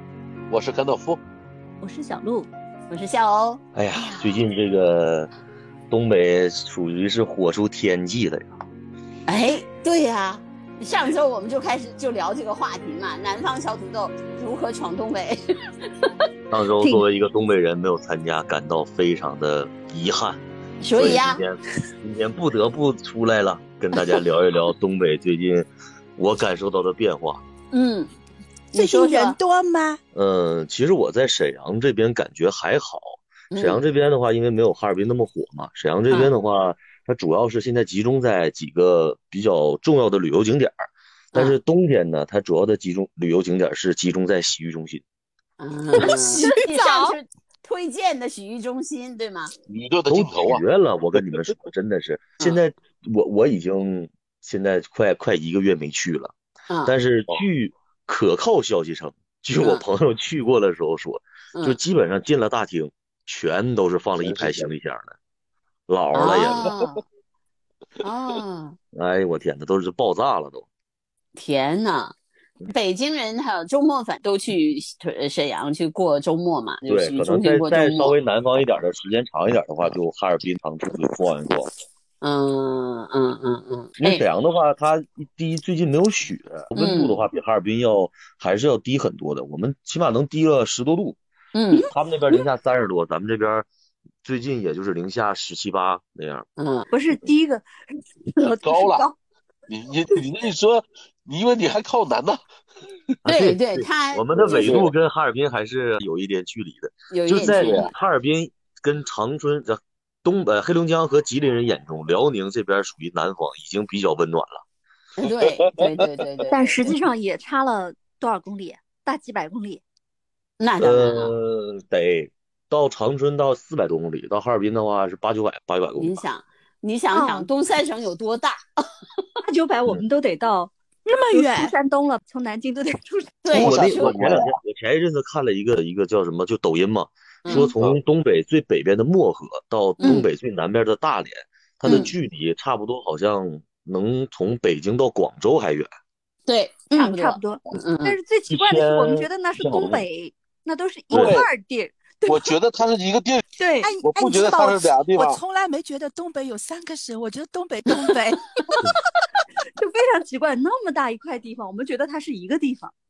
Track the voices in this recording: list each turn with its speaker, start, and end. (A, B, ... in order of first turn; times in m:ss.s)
0:00.5-0:01.2 A
0:01.8-0:02.5 B
0:02.9-0:03.6 C
0:03.7-0:05.3 D
0:05.9-0:08.5 D
0:09.3-0:15.4 C
0:16.5-0:27.4 D
0:20.8-0:21.4 C
0:27.7-0:28.1 C
0:28.7-0:29.4 C
0:28.7-0:30.0 E
0:30.1-0:45.0 D
0:33.5-0:33.8 C
0:45.6-0:49.5 C
0:46.0-0:47.2 E
0:49.7-0:50.6 A
0:50.1-0:56.3 D
0:56.7-0:56.9 C
0:56.8-1:05.1 D
0:59.6-0:59.8 C
1:04.2-1:04.7 A
1:05.9-1:06.7 D
1:06.1-1:07.0 C
1:08.0-1:08.8 C
1:08.9-1:10.7 D
1:11.3-1:12.1 C
1:12.7-1:18.1 C
1:16.9-1:21.7 D
1:22.2-1:24.2 C
1:24.0-1:31.2 D
1:26.8-1:27.3 C
1:31.5-1:31.9 C
1:31.9-1:33.6 D
1:34.2-1:36.4 D
1:36.6-1:36.9 C
1:36.9-1:37.6 B
1:38.3-1:39.1 B
1:38.6-1:39.1 A
1:39.7-1:42.4 A
1:43.2-1:54.6 D
1:43.2-1:44.8 C
1:44.4-1:44.9 A
1:47.1-1:47.9 C
1:47.4-1:47.9 A
1:55.2-1:56.9 C
1:55.4-1:55.9 A
1:56.5-1:59.8 B
2:00.6-2:01.3 C
2:00.8-2:06.2 D
2:06.0-2:08.6 C
2:07.1-2:07.5 B
2:09.4-2:10.7 B
2:11.0-2:11.7 E
2:11.3-2:13.4 B
2:13.4-2:14.2 C
2:13.5-2:14.5 A
2:13.5-2:25.9 D
2:17.4-2:17.7 C
2:17.5-2:18.0 A
2:20.0-2:20.3 C
2:21.8-2:22.1 C
2:26.5-2:28.2 C
2:26.9-2:32.5 B
2:28.5-2:30.0 D
2:31.1-2:31.4 D
2:31.1-2:31.5 A
2:32.2-2:33.4 A
2:33.6-2:33.9 B
2:33.8-2:38.9 E
2:34.0-2:35.4 A
2:39.8-2:42.9 B